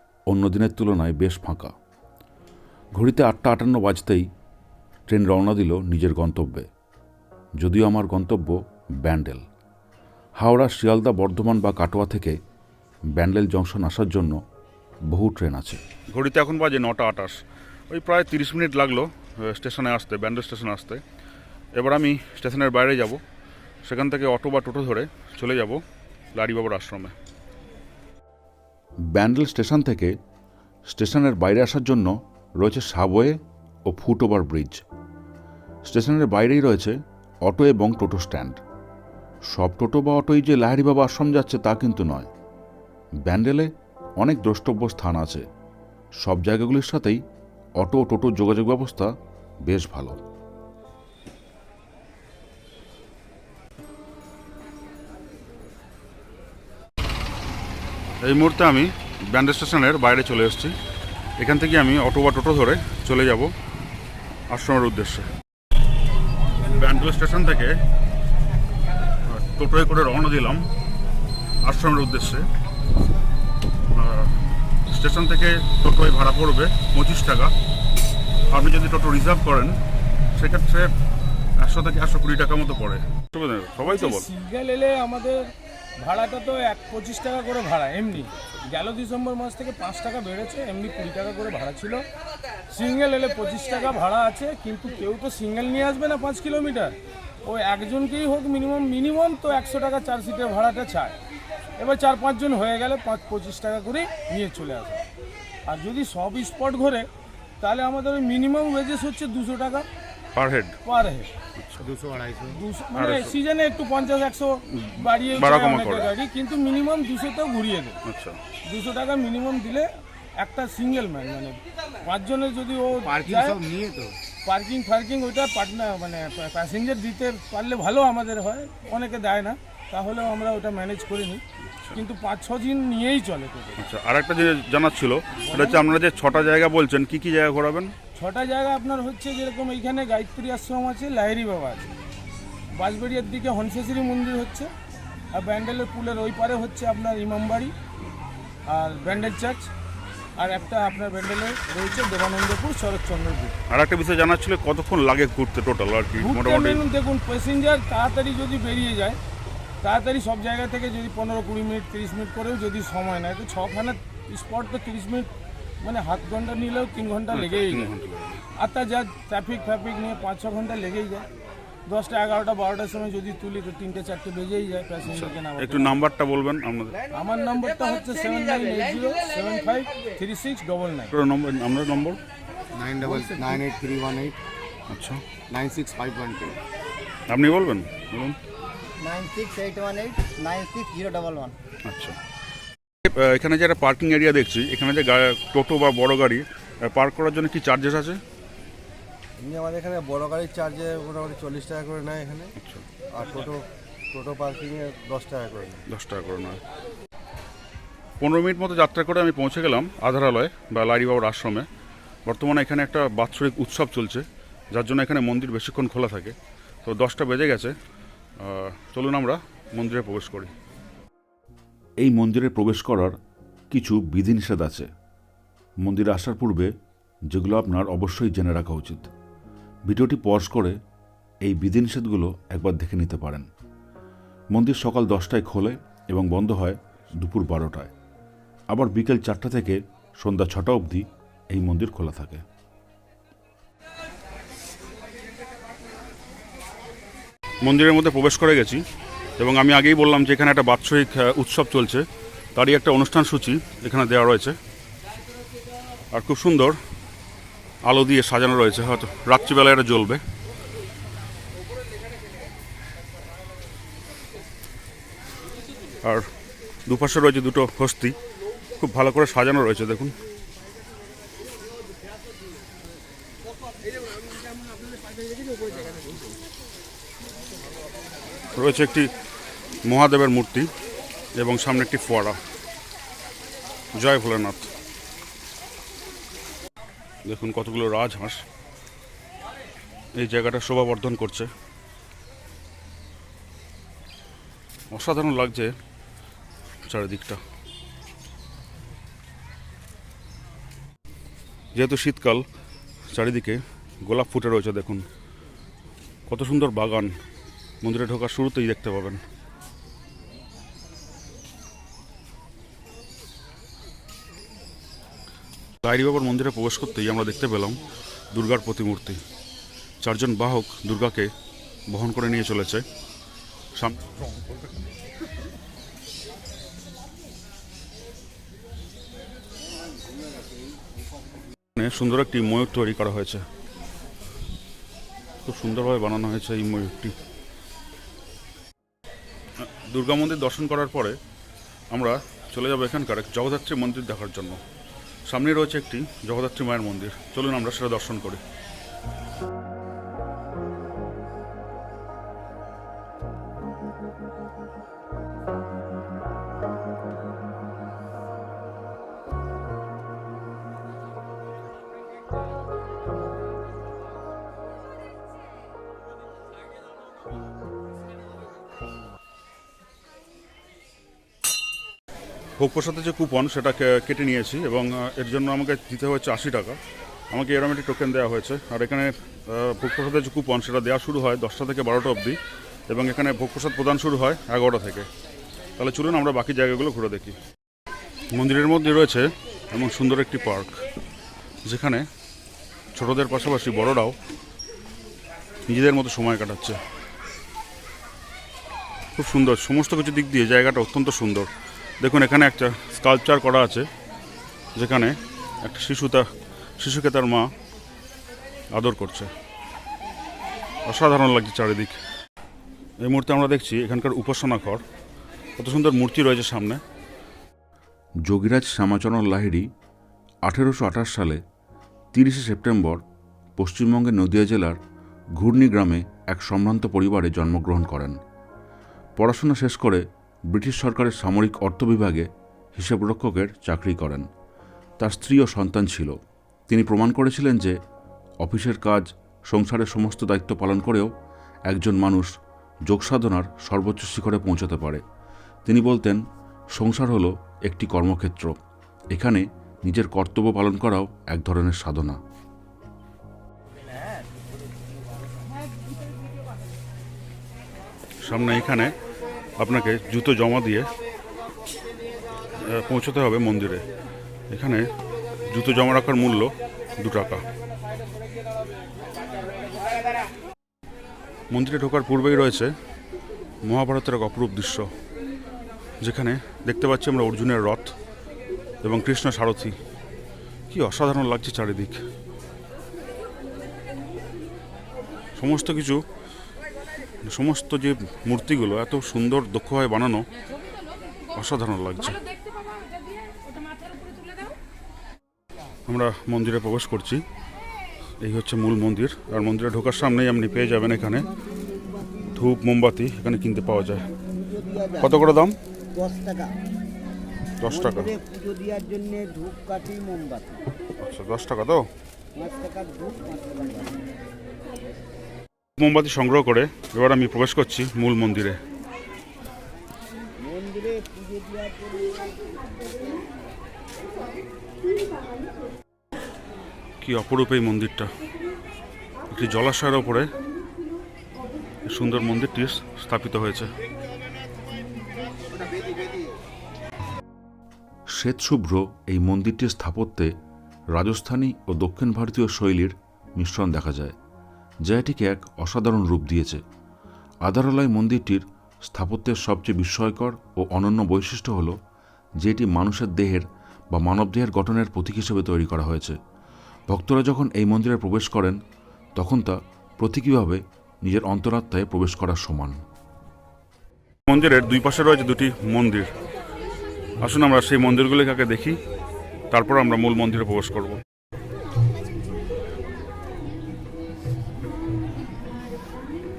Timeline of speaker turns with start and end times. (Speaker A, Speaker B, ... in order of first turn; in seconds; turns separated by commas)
Speaker A: 0.3-1.7, Speaker A: 3.0-4.3, Speaker A: 5.1-6.7, Speaker A: 7.6-9.4, Speaker A: 10.4-12.4, Speaker A: 13.2-14.4, Speaker A: 15.1-15.8, Speaker B: 16.1-21.0, Speaker B: 21.8-23.2, Speaker B: 23.9-25.8, Speaker B: 26.3-27.1, Speaker A: 29.1-30.1, Speaker A: 30.9-34.8, Speaker A: 35.9-38.6, Speaker A: 39.5-42.3, Speaker A: 43.3-45.5, Speaker A: 46.2-47.2, Speaker A: 47.8-49.1, Speaker A: 49.7-50.2, Speaker B: 58.2-60.8, Speaker B: 61.4-63.5, Speaker B: 64.5-65.3, Speaker B: 66.6-67.8, Speaker B: 69.3-70.7, Speaker B: 71.6-72.5, Speaker B: 73.9-77.5, Speaker B: 78.5-79.8, Speaker B: 80.3-80.9, Speaker B: 81.6-84.3, Speaker C: 83.8-92.0, Speaker C: 92.7-101.2, Speaker C: 101.8-105.0, Speaker C: 105.7-107.1, Speaker C: 107.6-109.9, Speaker B: 110.3-110.8, Speaker C: 110.8-111.3, Speaker B: 111.6-112.0, Speaker D: 111.9-112.6, Speaker C: 112.5-118.0, Speaker B: 113.0-113.4, Speaker B: 114.8-116.1, Speaker B: 118.1-118.4, Speaker C: 118.6-123.7, Speaker D: 123.0-124.2, Speaker C: 124.4-131.4, Speaker C: 131.9-133.9, Speaker B: 133.8-137.9, Speaker C: 135.5-135.8, Speaker C: 138.2-142.0, Speaker C: 142.7-144.7, Speaker C: 145.3-147.7, Speaker C: 148.7-149.7, Speaker C: 150.4-153.6, Speaker B: 153.7-156.8, Speaker C: 156.2-159.2, Speaker C: 159.8-165.3, Speaker C: 165.8-167.9, Speaker B: 167.3-168.4, Speaker C: 168.6-171.3, Speaker C: 171.9-176.0, Speaker B: 175.1-177.0, Speaker C: 177.1-181.2, Speaker B: 181.1-182.2, Speaker D: 182.8-184.4, Speaker E: 183.0-183.7, Speaker B: 184.9-185.2, Speaker D: 185.5-186.6, Speaker B: 187.3-188.4, Speaker E: 189.0-191.6, Speaker B: 191.8-192.2, Speaker B: 193.1-198.2, Speaker D: 199.4-202.5, Speaker B: 202.6-202.9, Speaker D: 203.1-205.8, Speaker B: 205.9-206.6, Speaker B: 208.2-211.7, Speaker B: 212.3-217.8, Speaker B: 218.4-220.5, Speaker A: 222.0-223.2, Speaker A: 223.7-224.9, Speaker A: 225.8-226.7, Speaker A: 227.3-229.1, Speaker A: 229.9-230.8, Speaker A: 231.4-233.5, Speaker A: 234.5-237.9, Speaker A: 238.7-242.4, Speaker B: 247.6-248.8, Speaker B: 249.4-254.6, Speaker B: 256.1-256.8, Speaker B: 257.8-260.2, Speaker B: 266.0-266.3, Speaker B: 266.9-268.2, Speaker B: 268.8-270.1, Speaker B: 278.6-279.1, Speaker B: 279.9-280.7, Speaker B: 281.4-282.4, Speaker B: 283.9-284.7, Speaker B: 287.3-288.4, Speaker B: 290.2-291.5, Speaker B: 294.9-295.7, Speaker B: 296.9-297.4, Speaker B: 301.8-302.4, Speaker B: 303.1-305.1, Speaker B: 306.3-307.1, Speaker B: 307.8-309.2, Speaker B: 315.8-317.8, Speaker B: 318.3-319.2, Speaker B: 320.0-321.3, Speaker B: 321.9-322.8, Speaker B: 323.8-324.2, Speaker B: 331.8-333.4, Speaker B: 335.4-337.2, Speaker B: 339.6-341.2, Speaker B: 341.9-344.6, Speaker B: 345.3-348.4, Speaker B: 372.6-376.8, Speaker B: 377.3-385.1, Speaker B: 385.8-387.4, Speaker B: 388.3-390.9, Speaker B: 391.7-392.1, Speaker B: 393.0-394.2, Speaker B: 395.7-396.8, Speaker B: 399.2-401.5, Speaker B: 402.0-403.9, Speaker B: 404.8-406.3, Speaker B: 406.8-407.5, Speaker B: 408.7-409.3, Speaker B: 410.9-412.0, Speaker B: 413.0-414.8, Speaker B: 415.6-416.8, Speaker A: 418.3-419.7, Speaker A: 420.5-421.4, Speaker A: 422.1-423.0, Speaker A: 423.6-424.8, Speaker A: 425.4-428.2, Speaker A: 429.2-434.3, Speaker A: 435.0-436.1, Speaker A: 436.7-437.8, Speaker A: 438.4-441.1, Speaker A: 441.7-442.3, Speaker A: 442.9-445.0, Speaker A: 445.7-446.2, Speaker A: 446.8-448.5, Speaker A: 449.1-452.2, Speaker B: 458.2-458.9, Speaker B: 459.6-460.9, Speaker B: 462.6-463.9, Speaker B: 464.5-464.9, Speaker B: 465.5-467.4, Speaker B: 471.5-472.7, Speaker B: 473.6-474.9, Speaker B: 476.0-477.9, Speaker B: 478.8-479.8, Speaker B: 480.7-482.0, Speaker B: 485.4-486.0, Speaker B: 487.3-490.3, Speaker B: 491.4-492.2, Speaker B: 495.9-497.2, Speaker B: 498.2-501.3, Speaker B: 502.4-504.1, Speaker E: 504.3-505.2, Speaker B: 505.0-505.6, Speaker E: 505.9-506.6, Speaker B: 507.6-508.2, Speaker E: 507.7-510.7, Speaker B: 511.0-511.9, Speaker E: 512.4-514.1, Speaker B: 515.8-518.6, Speaker E: 520.4-522.5, Speaker B: 527.0-528.1, Speaker B: 529.3-530.3, Speaker B: 531.9-533.7, Speaker A: 538.1-540.3, Speaker A: 541.0-544.2, Speaker A: 544.9-546.6, Speaker A: 547.5-551.7, Speaker A: 552.4-556.2, Speaker A: 556.9-558.6, Speaker A: 559.2-562.8, Speaker B: 564.3-566.1, Speaker B: 567.2-568.8, Speaker B: 569.5-571.0